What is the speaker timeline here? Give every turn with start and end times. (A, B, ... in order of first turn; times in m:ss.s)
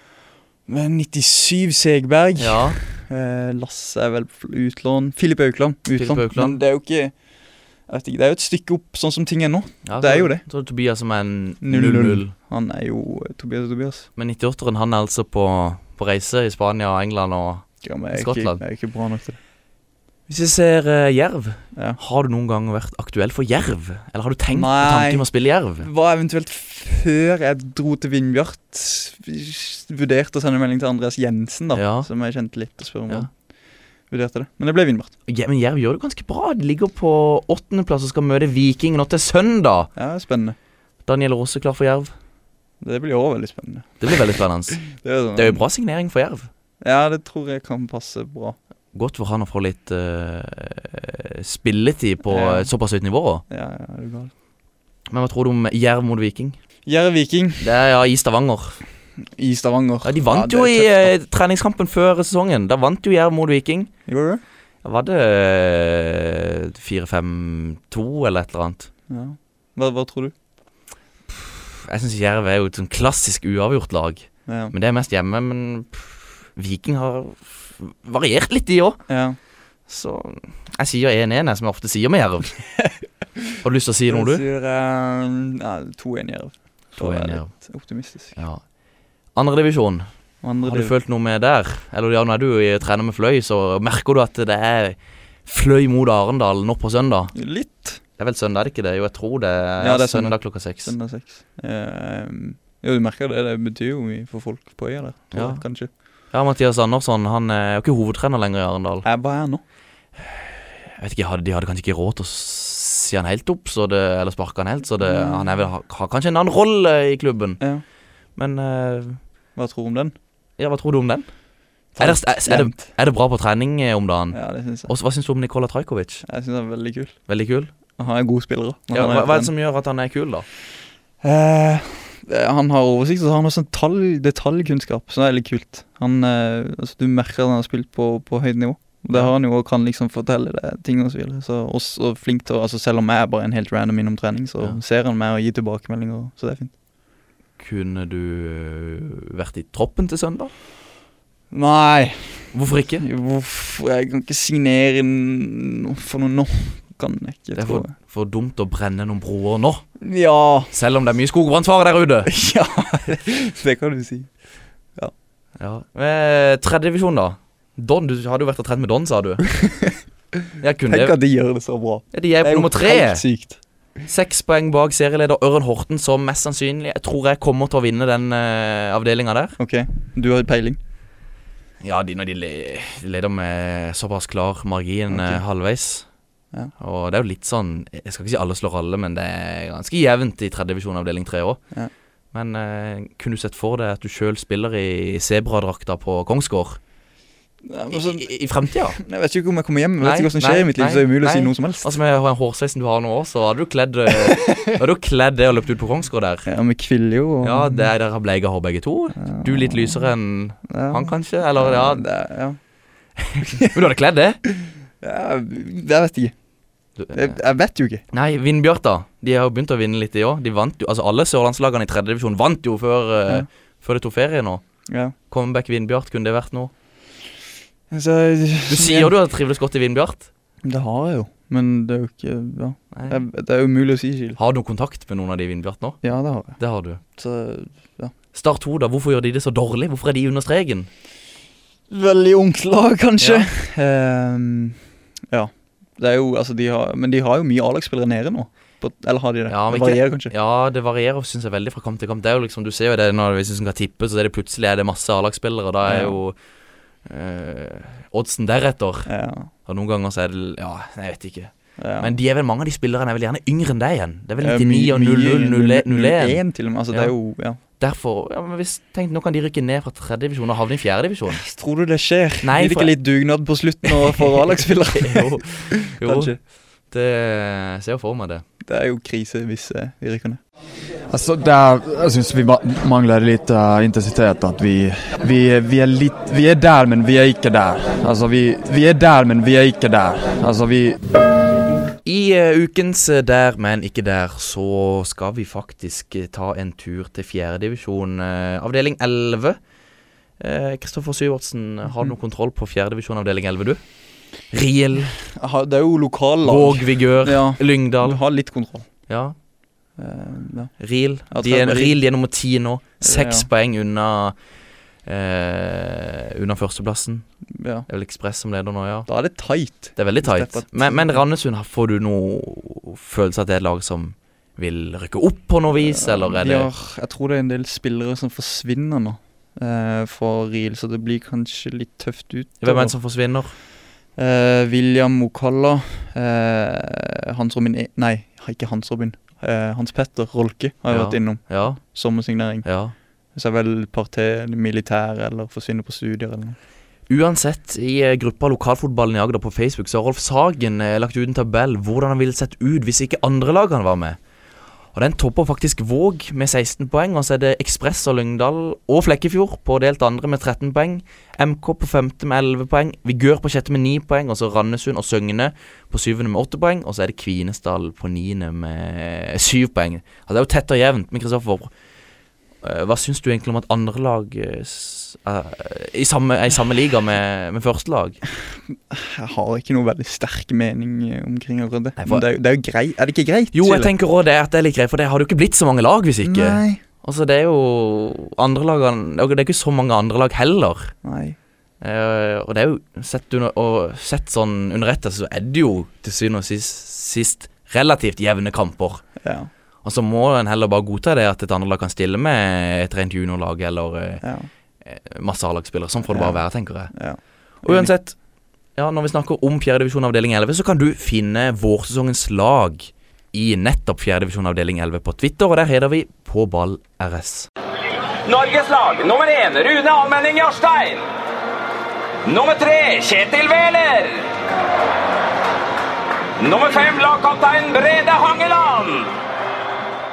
0:00.7-0:07.1 A
0:02.4-0:02.8 B
0:05.9-0:06.6 B
0:07.9-0:10.4 A
0:09.8-0:12.3 B
0:11.6-0:14.1 A
0:14.2-0:18.6 B
0:17.8-0:19.4 A
0:20.3-0:25.9 B
0:24.5-0:25.2 A
0:25.8-0:33.3 A
0:31.7-0:32.1 B
0:34.1-0:35.1 A
0:35.3-0:39.9 B
0:40.0-0:40.5 A
0:41.0-0:42.1 B
0:42.8-0:44.3 A
0:44.0-0:46.5 B
0:44.8-0:45.6 A
0:46.8-0:48.6 A
0:48.9-0:53.4 B
0:52.3-0:52.7 A
0:53.5-0:54.3 A
0:55.1-0:56.6 B
0:56.8-0:57.7 A
0:57.6-0:58.8 B
0:59.4-1:01.1 A
1:00.0-1:03.9 B
1:04.1-1:04.4 A
1:04.8-1:08.9 B
1:09.1-1:10.3 A
1:11.3-1:19.0 B
1:14.5-1:14.7 A
1:19.1-1:19.4 A
1:19.9-1:22.6 B
1:23.6-1:24.4 B
1:24.1-1:28.4 A
1:26.9-1:27.5 B
1:28.3-1:28.6 B
1:29.3-1:30.1 B
1:30.4-1:30.9 A
1:30.6-1:37.3 B
1:37.3-1:38.0 A
1:38.2-1:40.9 B
1:39.8-1:45.9 A
1:45.3-1:45.6 B
1:46.3-1:49.0 B
1:49.0-1:49.6 A
1:50.2-1:57.6 B
1:55.0-1:55.6 A
1:58.4-1:59.2 B
1:59.6-2:00.1 A
2:00.6-2:01.3 B
2:01.9-2:02.9 A
2:02.0-2:06.2 B
2:04.3-2:04.9 A
2:06.2-2:07.1 A
2:07.3-2:07.7 B
2:08.0-2:09.5 A
2:08.9-2:10.4 B
2:11.2-2:26.7 A
2:27.6-2:30.5 B
2:31.5-2:37.9 A
2:32.5-2:33.0 B
2:37.6-2:39.9 B
2:40.0-2:40.7 A
2:40.7-2:42.3 B
2:42.2-2:44.3 A
2:45.6-2:49.5 B
2:49.6-2:50.0 A
2:50.6-2:51.2 B
2:50.8-2:53.6 A
2:52.1-2:53.2 B
2:54.0-2:59.6 B
2:59.6-3:00.8 A
3:01.8-3:06.1 B
3:05.1-3:05.4 A
3:06.8-3:11.6 B
3:12.3-3:16.8 B
3:17.6-3:21.9 A
3:17.9-3:19.0 B
3:20.0-3:26.5 B
3:24.3-3:24.7 A
3:26.4-3:27.9 A
3:27.4-3:32.0 B
3:29.2-3:30.1 A
3:30.7-3:32.6 A
3:33.2-3:34.4 B
3:33.4-3:33.7 A
3:35.0-3:36.3 A
3:37.0-3:37.4 B
3:37.1-3:38.0 A
3:38.1-3:44.6 B
3:44.9-3:45.1 A
3:45.3-3:46.7 B
3:47.9-3:49.1 A
3:48.7-3:50.3 B
3:50.6-3:54.4 A
3:52.9-3:53.2 B
3:54.4-3:57.0 B
3:56.0-3:58.1 A
3:58.3-4:00.9 B
4:01.9-4:04.8 A
4:03.2-4:03.5 B
4:05.3-4:10.3 A
4:09.5-4:16.4 B
4:15.8-4:16.2 A
4:17.0-4:27.1 B
4:19.1-4:19.5 A
4:21.8-4:22.1 A
4:24.4-4:27.6 A
4:27.7-4:31.4 B
4:31.3-4:36.4 A
4:32.4-4:33.0 B
4:33.8-4:36.4 B
4:36.9-4:38.4 B
4:38.6-4:40.4 A
4:41.1-4:51.0 C
4:52.0-4:59.6 B
5:00.4-5:03.8 B
5:04.4-5:05.2 B
5:05.4-5:08.9 A
5:06.4-5:08.2 B
5:09.1-5:09.4 B
5:10.0-5:10.7 A
5:10.8-5:14.4 B
5:11.3-5:12.0 A
5:13.0-5:13.5 A
5:15.0-5:17.2 B
5:17.5-5:17.9 A
5:17.9-5:19.1 B
5:19.1-5:21.2 A
5:19.9-5:26.7 B
5:25.7-5:33.0 A
5:32.6-5:33.5 B
5:34.2-5:42.6 A
5:40.9-5:41.8 B
5:42.6-5:42.9 B
5:43.3-5:46.6 A
5:47.1-5:54.2 B
5:54.9-6:11.7 B
6:12.6-6:18.2 B
6:18.7-6:23.9 A
6:22.0-6:22.2 B
6:23.5-6:30.9 B
6:26.2-6:26.8 A
6:31.0-6:31.4 A
6:31.8-6:39.2 B
6:39.2-6:39.5 A
6:39.8-6:44.2 B
6:44.2-6:44.5 A
6:44.8-6:46.9 B
6:46.1-6:47.9 A
6:47.6-6:48.2 B
6:48.7-6:57.5 B
6:58.2-7:01.0 D
7:02.2-7:04.2 D
7:06.4-7:09.1 D